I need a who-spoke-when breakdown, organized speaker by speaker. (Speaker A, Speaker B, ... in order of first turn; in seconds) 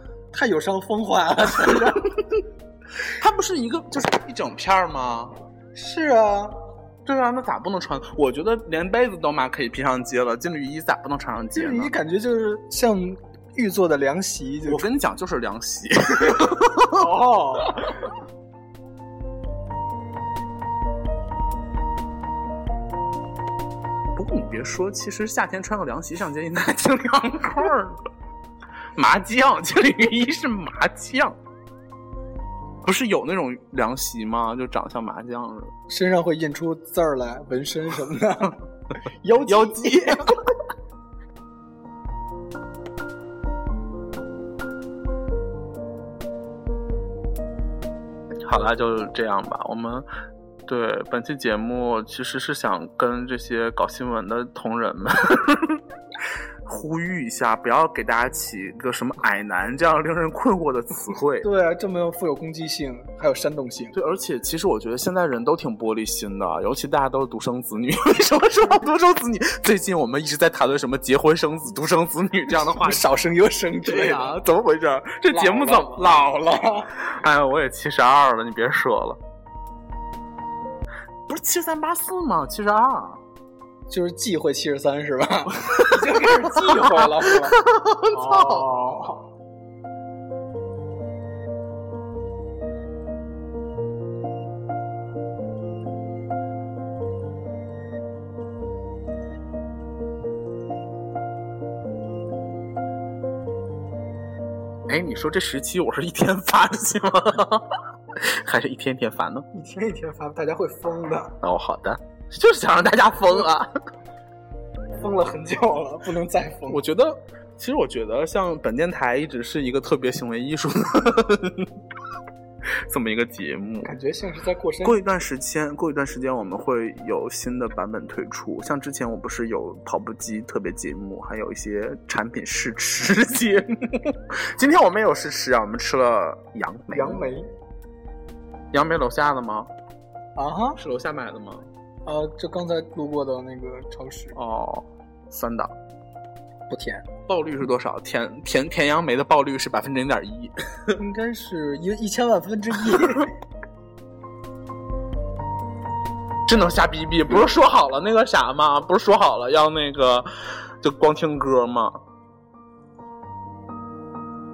Speaker A: 0.3-2.1, 5.8-6.5, 11.5-14.9, 16.9-17.8, 35.9-38.6, 39.2-40.2, 61.4-64.0, 72.8-74.4, 75.3-77.0, 83.9-87.6, 88.1-89.3, 109.5-111.4, 115.0-116.8, 123.8-125.0, 136.9-137.5, 140.4-140.8, 142.1-144.4, 146.7-147.1, 151.0-153.3
Speaker B: 3.0-5.3, 7.0-11.9, 14.7-17.1, 24.2-28.0, 29.0-31.4, 32.9-35.7, 39.5-40.4, 48.5-50.1, 50.7-55.8, 56.7-61.5, 63.9-73.1, 73.8-76.4, 77.0-79.2, 81.3-83.2, 85.7-88.7, 104.9-109.5, 111.4-113.7, 116.7-121.7, 122.9-123.9, 124.8-137.3, 138.7-139.7, 140.8-141.7, 144.3-145.7, 147.3-151.0, 156.5-160.3, 160.8-162.0